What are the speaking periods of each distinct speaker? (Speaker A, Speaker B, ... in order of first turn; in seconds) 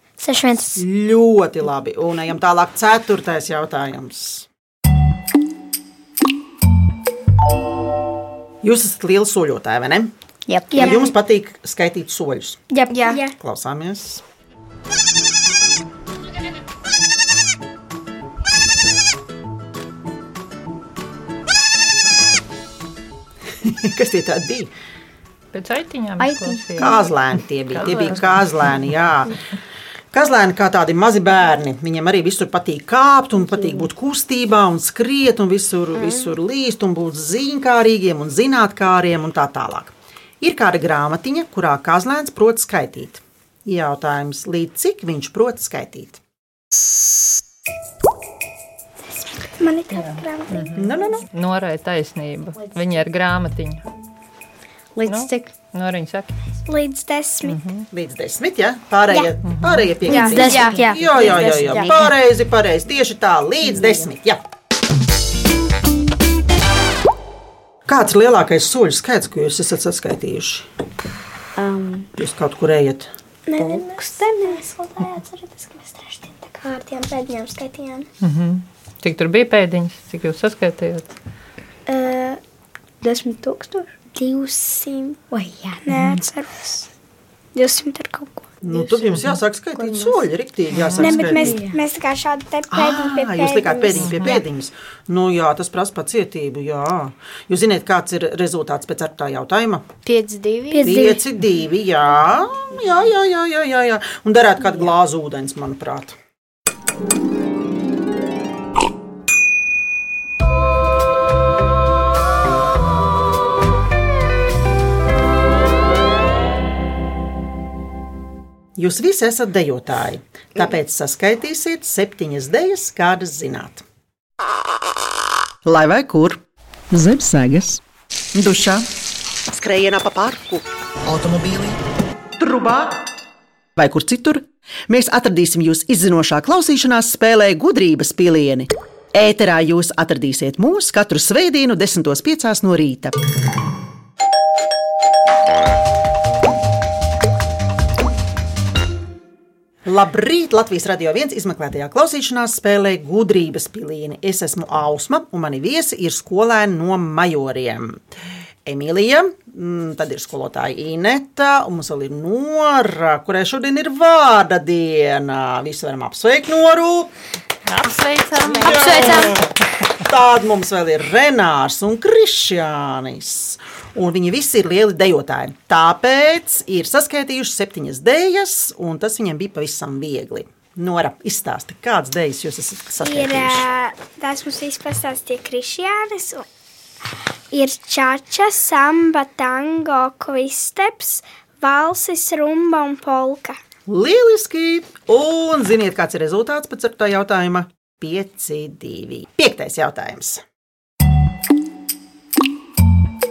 Speaker A: 0.2-0.8, 10.7-11.1, 12.7-13.2, 60.1-61.4, 100.7-101.2, 168.8-169.3
Speaker B: 0.8-4.5, 8.6-10.1, 10.7-12.6, 13.3-14.2, 23.6-24.7, 26.8-29.4, 30.1-46.2, 50.7-51.2, 57.9-64.4, 67.8-70.7, 72.2-73.1, 88.6-91.6, 92.7-99.9, 100.8-106.2, 118.8-123.8, 125.6-127.8, 128.3-128.9, 129.5-131.8, 132.4-133.1, 133.8-143.2, 149.8-158.0, 158.6-167.1, 168.4-183.7, 193.9-200.4
Speaker C: 10.5-11.0, 26.2-26.6, 33.5-33.9, 54.9-55.5, 60.1-62.1, 63.7-64.0, 71.5-72.1, 73.6-74.6, 83.0-83.9, 85.3-85.8, 91.3-91.8
Speaker D: 12.9-13.2, 35.9-36.3, 60.1-61.9, 100.0-101.1
Speaker E: 13.1-13.3, 49.2-50.8, 56.7-57.6, 73.5-78.1, 81.9-82.4, 84.1-85.2, 85.8-86.9, 87.5-88.5, 91.0-94.3, 183.0-186.4, 187.5-193.6
Speaker F: 25.5-27.0, 27.7-28.8, 49.9-53.8, 55.1-56.3, 57.4-57.9, 59.4-59.9, 78.2-81.1, 90.7-91.2, 94.0-94.4, 167.7-169.2